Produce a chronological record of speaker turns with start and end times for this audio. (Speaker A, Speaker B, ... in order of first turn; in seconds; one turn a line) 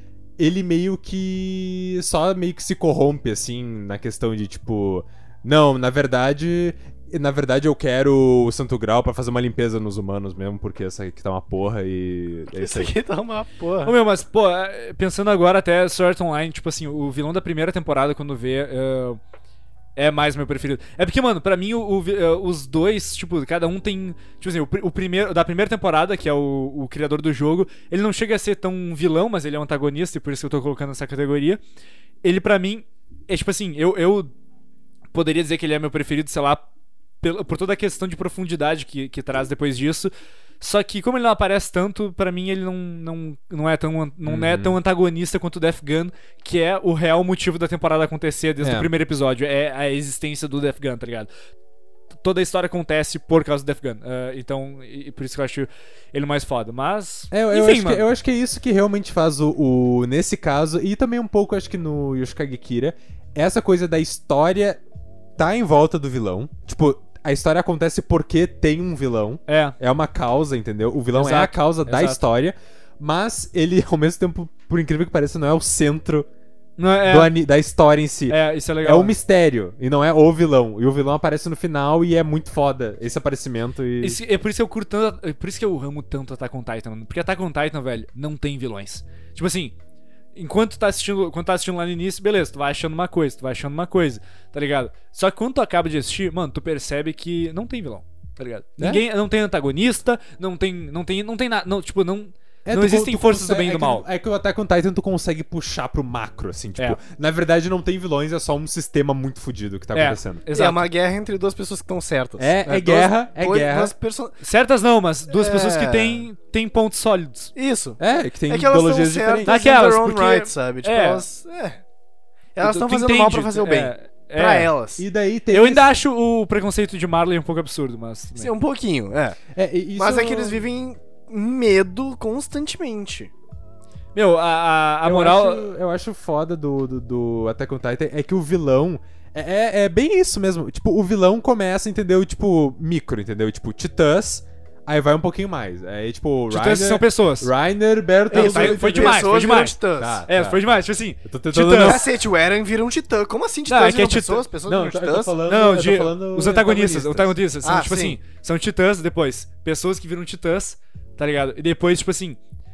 Speaker A: 0.4-12.9
Speaker B: 12.5-13.9
Speaker C: 13.8-19.2
Speaker C: 20.0-31.6
Speaker C: 32.2-34.3
Speaker C: 35.1-36.7
Speaker C: 37.2-51.3
Speaker A: 44.2-44.8
Speaker A: 48.6-48.9
Speaker C: 52.2-58.1
Speaker A: 57.3-64.8
Speaker A: 65.4-76.3
Speaker C: 69.5-69.8
Speaker C: 71.1-72.2
Speaker C: 76.8-77.3
Speaker A: 77.0-84.2
Speaker C: 78.3-79.2
Speaker C: 84.0-89.7
Speaker C: 90.3-104.0
Speaker A: 102.7-110.4
Speaker C: 109.9-110.9
Speaker B: 110.5-114.4
Speaker A: 112.4-113.9
Speaker C: 114.4-117.5
Speaker B: 115.3-116.3
Speaker B: 117.6-121.8
Speaker A: 118.0-119.6
Speaker C: 119.5-121.2
Speaker B: 122.5-125.0
Speaker C: 122.6-124.7
Speaker A: 125.0-125.9
Speaker C: 125.5-128.5
Speaker B: 128.3-129.4
Speaker A: 129.5-130.6
Speaker B: 130.0-133.3
Speaker C: 134.2-135.7
Speaker A: 135.0-149.4
Speaker C: 146.5-147.5
Speaker B: 148.3-150.2
Speaker C: 148.3-152.0
Speaker A: 150.0-150.6
Speaker A: 151.2-152.1
Speaker B: 151.8-155.3
Speaker C: 153.7-154.4
Speaker A: 154.7-157.3
Speaker C: 155.4-162.4
Speaker B: 157.6-158.2